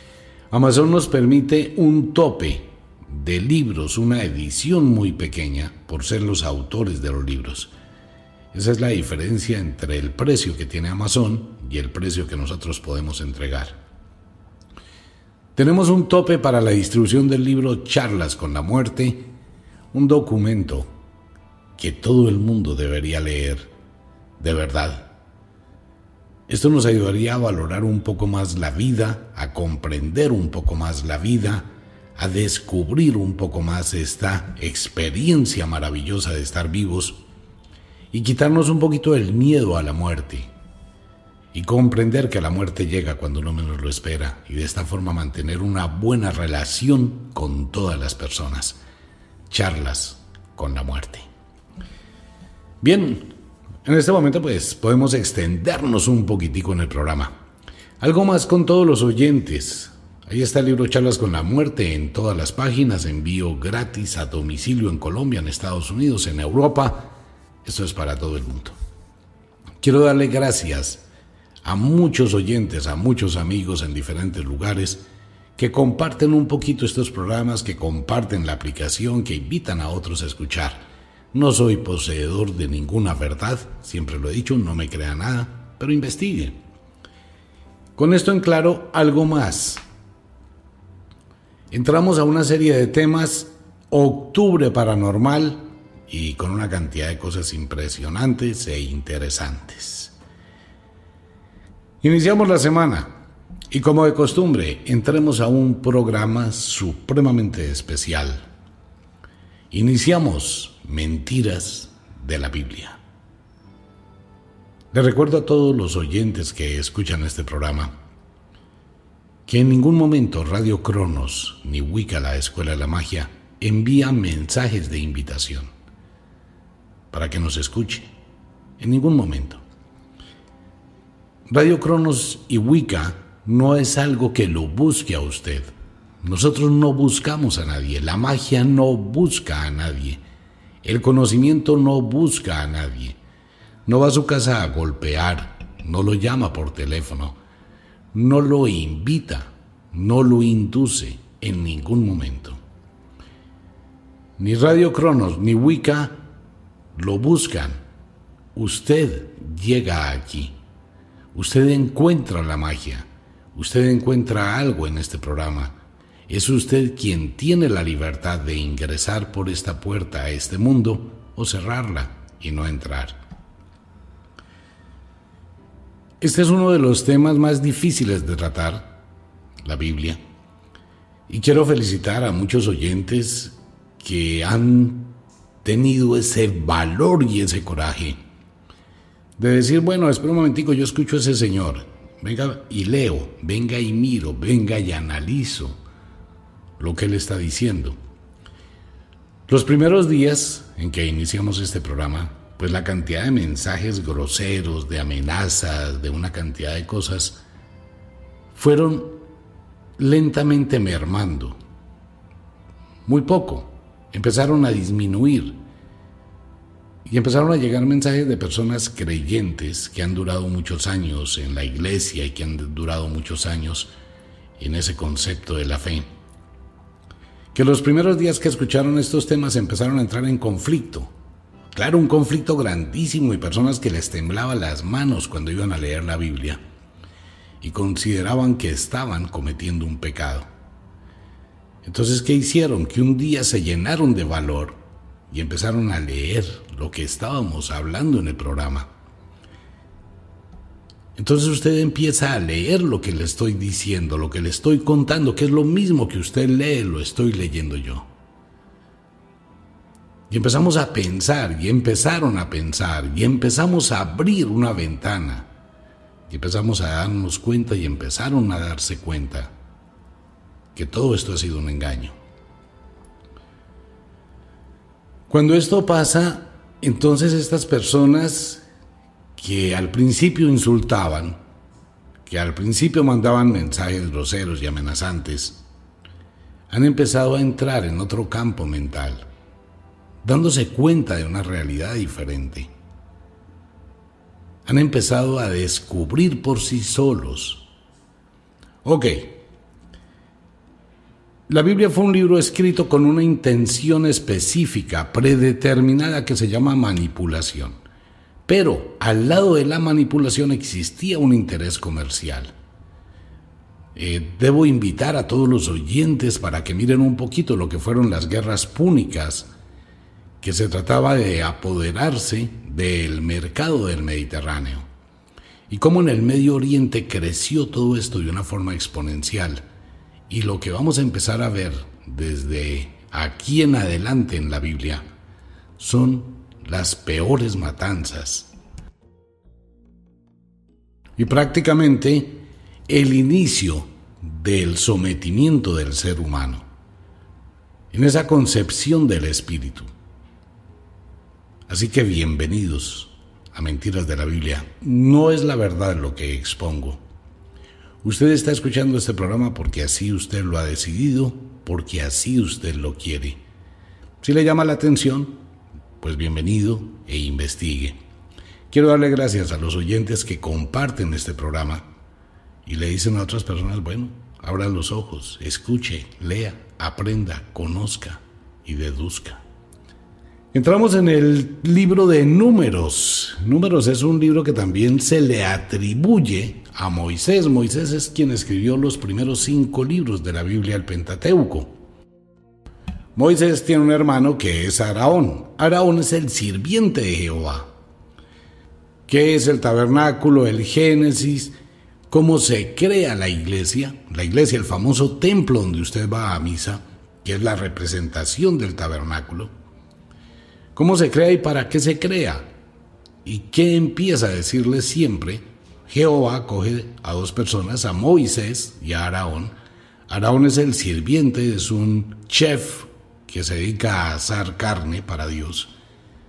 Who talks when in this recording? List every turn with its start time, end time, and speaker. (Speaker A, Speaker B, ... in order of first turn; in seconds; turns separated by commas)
Speaker A: 0.5-7.7, Speaker A: 8.5-13.8, Speaker A: 15.6-19.2, Speaker A: 19.9-20.9, Speaker A: 21.8-23.7, Speaker A: 24.4-25.1, Speaker A: 26.5-37.2, Speaker A: 38.1-40.5, Speaker A: 41.5-48.8, Speaker A: 49.5-51.2, Speaker A: 52.8-53.3, Speaker A: 53.8-57.3, Speaker A: 58.0-67.1, Speaker A: 67.6-68.7, Speaker A: 69.8-71.0, Speaker A: 71.6-75.0, Speaker A: 75.6-86.5, Speaker A: 88.0-89.8, Speaker A: 91.7-100.1, Speaker A: 102.0-103.1, Speaker A: 103.7-108.4, Speaker A: 109.7-113.0, Speaker A: 114.9-117.9, Speaker A: 119.5-125.7, Speaker A: 127.1-128.1, Speaker A: 128.8-129.6, Speaker A: 131.5-135.7, Speaker A: 136.2-140.2, Speaker A: 140.8-143.2, Speaker A: 143.8-147.4, Speaker A: 148.1-152.6, Speaker A: 154.4-156.2, Speaker A: 156.9-157.8, Speaker A: 158.5-160.5, Speaker A: 161.3-165.7, Speaker A: 166.3-173.2, Speaker A: 176.2-178.9, Speaker A: 179.6-180.2, Speaker A: 181.3-185.1, Speaker A: 185.6-188.2, Speaker A: 189.4-195.8, Speaker A: 196.8-198.0, Speaker A: 199.5-207.4, Speaker A: 208.5-209.2, Speaker A: 210.0-211.6, Speaker A: 213.0-215.6, Speaker A: 217.1-223.9, Speaker A: 224.6-226.1, Speaker A: 227.5-231.1, Speaker A: 231.7-236.6, Speaker A: 237.6-240.5, Speaker A: 241.8-244.8, Speaker A: 245.3-248.9, Speaker A: 251.2-258.1, Speaker A: 260.3-265.5, Speaker A: 266.3-269.5, Speaker A: 270.7-272.1, Speaker A: 275.3-278.6, Speaker A: 279.4-281.4, Speaker A: 282.2-285.6, Speaker A: 286.7-289.2, Speaker A: 290.2-292.7, Speaker A: 294.6-297.6, Speaker A: 298.8-299.4, Speaker A: 301.5-307.8, Speaker A: 308.5-312.5, Speaker A: 313.9-319.5, Speaker A: 320.4-324.9, Speaker A: 325.7-329.6, Speaker A: 330.3-335.0, Speaker A: 335.8-338.5, Speaker A: 341.2-346.6, Speaker A: 347.9-349.9, Speaker A: 351.7-357.0, Speaker A: 358.0-363.4, Speaker A: 364.2-365.4, Speaker A: 366.0-368.0, Speaker A: 368.7-371.8, Speaker A: 372.6-379.4, Speaker A: 380.5-391.7, Speaker A: 393.1-397.7, Speaker A: 399.1-401.5, Speaker A: 402.1-409.5, Speaker A: 410.7-412.5, Speaker A: 413.2-419.5, Speaker A: 420.1-425.7